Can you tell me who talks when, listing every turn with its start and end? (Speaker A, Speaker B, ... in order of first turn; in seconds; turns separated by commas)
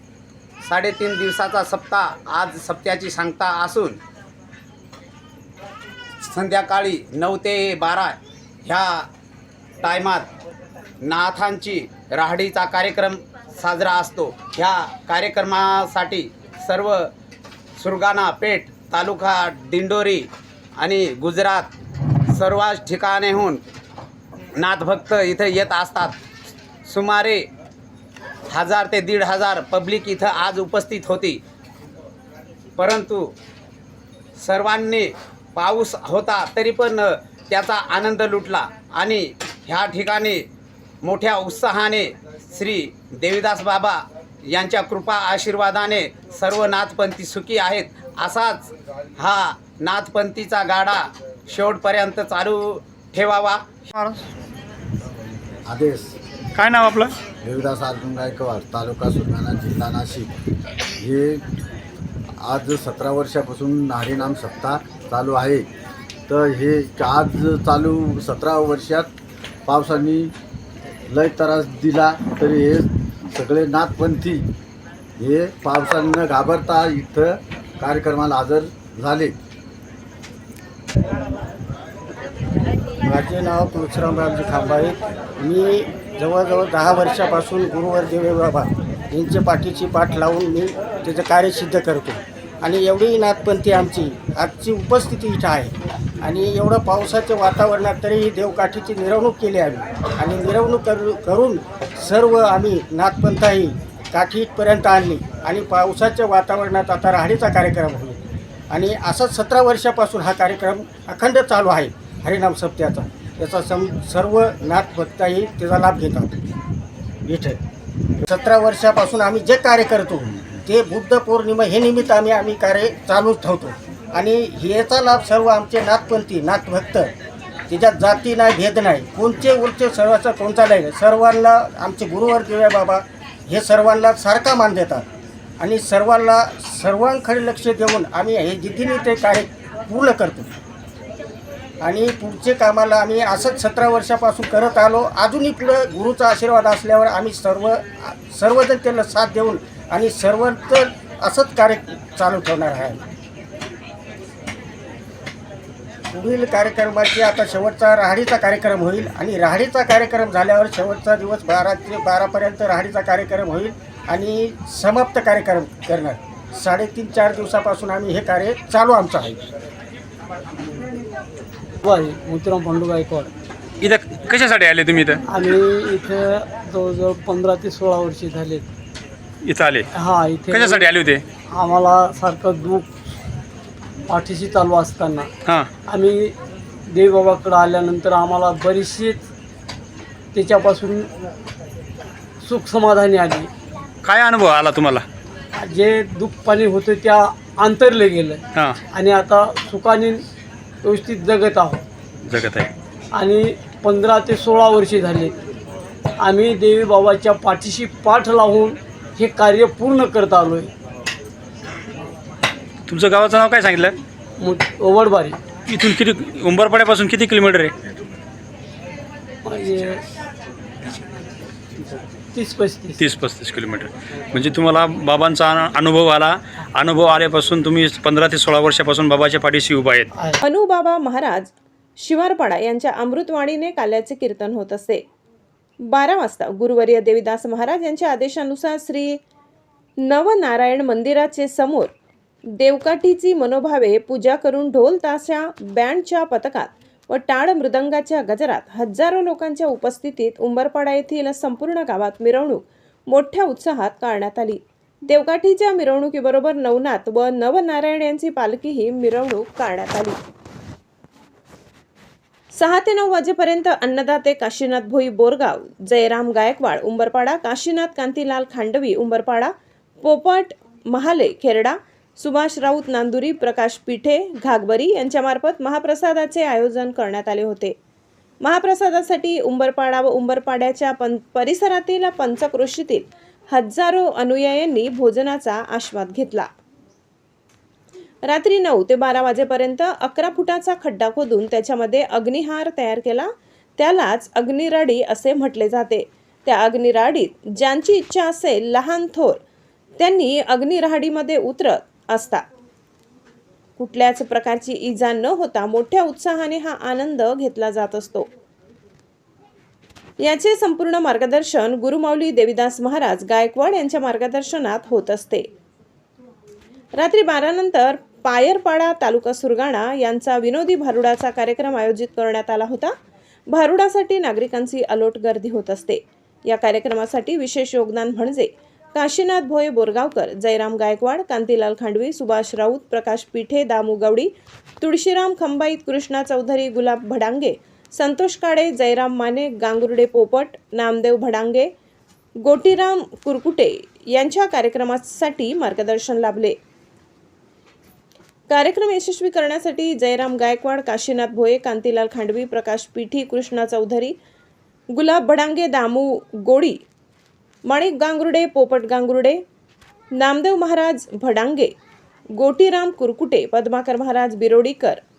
Speaker A: 0.6-4.0, Speaker A: 6.2-9.1, Speaker A: 9.8-10.3, Speaker A: 11.0-17.1, Speaker A: 17.8-20.3, Speaker A: 20.8-21.7, Speaker A: 22.3-23.6, Speaker A: 24.6-26.2, Speaker A: 26.9-27.5, Speaker A: 28.5-31.4, Speaker A: 32.8-33.3, Speaker A: 34.4-40.5, Speaker A: 41.0-53.7, Speaker B: 53.9-54.2, Speaker C: 55.7-56.1, Speaker B: 56.5-57.1, Speaker C: 57.4-60.3, Speaker C: 61.0-61.4, Speaker C: 62.4-65.7, Speaker C: 66.3-69.1, Speaker C: 69.7-70.3, Speaker C: 71.1-74.5, Speaker C: 75.2-79.4, Speaker D: 83.0-108.2, Speaker D: 108.7-116.4, Speaker D: 117.2-117.6, Speaker D: 118.2-127.1, Speaker D: 127.7-135.1, Speaker D: 135.6-140.5, Speaker D: 141.8-153.0, Speaker D: 156.1-169.4, Speaker E: 171.8-173.3, Speaker B: 173.8-175.2, Speaker E: 175.3-178.7, Speaker B: 179.4-179.9, Speaker E: 179.9-180.9, Speaker B: 180.5-181.2, Speaker E: 181.6-183.0, Speaker E: 184.1-185.3, Speaker E: 185.9-186.3, Speaker E: 186.9-189.2, Speaker E: 190.3-191.1, Speaker E: 192.4-193.5, Speaker B: 194.0-195.1, Speaker E: 195.6-198.4, Speaker E: 198.9-200.2, Speaker E: 200.8-201.8, Speaker B: 202.3-202.7, Speaker E: 203.1-205.4, Speaker E: 206.2-210.7, Speaker B: 212.9-214.0, Speaker E: 214.4-215.4, Speaker B: 215.7-217.8, Speaker E: 219.4-220.0, Speaker E: 222.3-223.0, Speaker B: 223.0-230.1, Speaker F: 230.4-235.0, Speaker F: 235.9-239.2, Speaker F: 240.0-241.9, Speaker F: 242.6-260.2, Speaker F: 262.6-277.8, Speaker F: 278.4-286.5, Speaker F: 288.3-299.4, Speaker F: 300.0-302.4, Speaker F: 303.8-308.3, Speaker F: 310.2-315.5, Speaker F: 317.0-322.9, Speaker F: 323.5-334.3, Speaker F: 334.8-341.7, Speaker F: 342.4-346.6, Speaker F: 348.5-354.1, Speaker F: 354.9-356.8, Speaker F: 357.7-359.4, Speaker F: 360.2-361.7, Speaker F: 362.4-365.0